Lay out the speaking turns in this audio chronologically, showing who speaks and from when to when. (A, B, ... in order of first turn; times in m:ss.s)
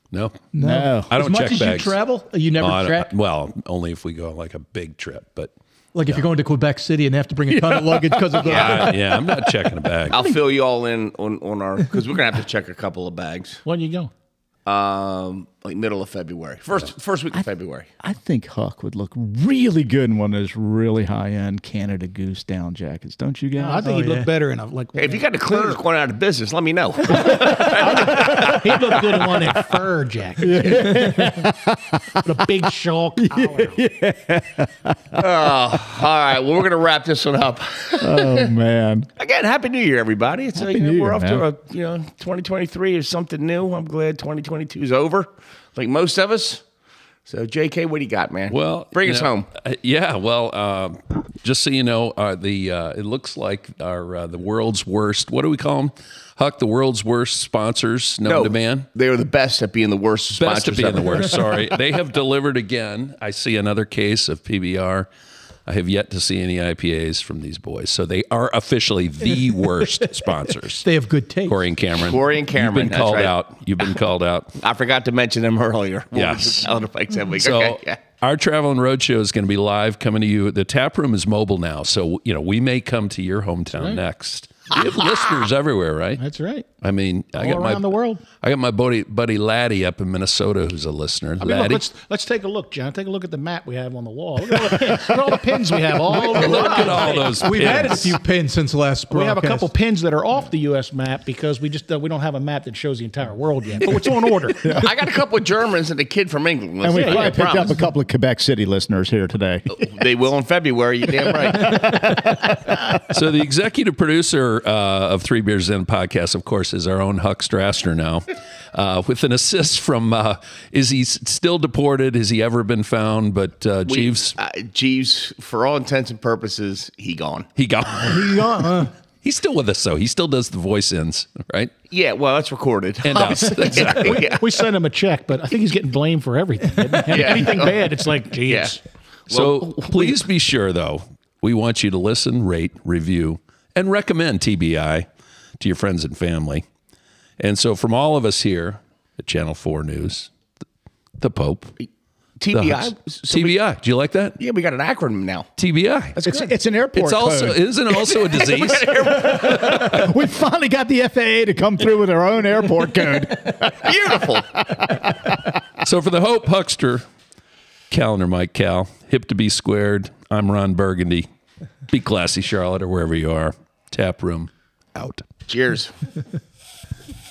0:00.1-0:00.4 A
0:00.5-0:03.1 B
0:00.6-0:01.1 C
0:01.1-0:02.0 A
0:02.6-0:05.5 A
0:05.9-0:08.9 B
0:07.5-0:09.9 C
0:08.4-0:10.3 A
0:08.4-0:08.9 D
0:10.1-0:13.6 D
0:13.6-0:14.1 E
0:14.6-0:17.9 D
0:18.0-0:23.9 C
0:23.6-0:25.8 E
0:23.8-0:24.3 B
0:25.0-0:29.1 D
0:27.2-0:31.5 E
0:27.9-0:28.4 C
0:30.4-0:32.6 C
0:32.2-0:33.8 E
0:33.2-0:35.5 C
0:35.2-0:38.5 D
0:38.0-0:39.1 C
0:39.2-0:46.6 D
0:40.5-0:41.4 C
0:47.2-0:49.5 D
0:48.5-0:58.9 A
0:58.2-1:01.8 D
1:00.4-1:05.1 A
1:05.6-1:10.8 A
1:10.8-1:11.6 B
1:11.4-1:14.5 A
1:11.9-1:14.0 D
1:14.6-1:18.0 D
1:16.1-1:16.7 A
1:17.3-1:26.2 A
1:23.7-1:24.0 E
1:26.2-1:26.7 E
1:26.8-1:31.8 A
1:27.3-1:28.2 E
1:31.4-1:37.6 E
1:36.0-1:38.2 A
1:36.4-1:39.7 B
1:39.1-1:44.8 E
1:44.6-1:44.9 C
1:44.6-1:47.8 D
1:46.8-1:49.8 C
1:46.9-1:47.5 E
1:49.7-1:52.2 D
1:51.2-1:52.7 C
1:53.1-2:04.4 A
2:03.9-2:07.5 D
2:07.6-2:11.7 A
2:08.0-2:08.9 B
2:11.9-2:14.5 D
2:13.0-2:14.3 A
2:13.2-2:18.8 E
2:17.1-2:17.9 D
2:18.4-2:18.7 D
2:19.3-2:20.2 D
2:19.3-2:25.1 A
2:25.6-2:26.6 A
2:27.4-2:30.3 A
2:31.2-2:31.7 A
2:32.4-2:33.6 D
2:32.5-2:34.4 A
2:34.4-2:35.5 D
2:35.6-2:36.2 A
2:36.1-2:37.6 C
2:36.9-2:40.0 A
2:38.0-2:40.0 D
2:39.2-2:45.5 C
2:43.6-2:44.5 D
2:45.8-2:47.0 A
2:47.9-2:51.2 A
2:51.9-2:55.2 A
2:55.5-2:55.9 D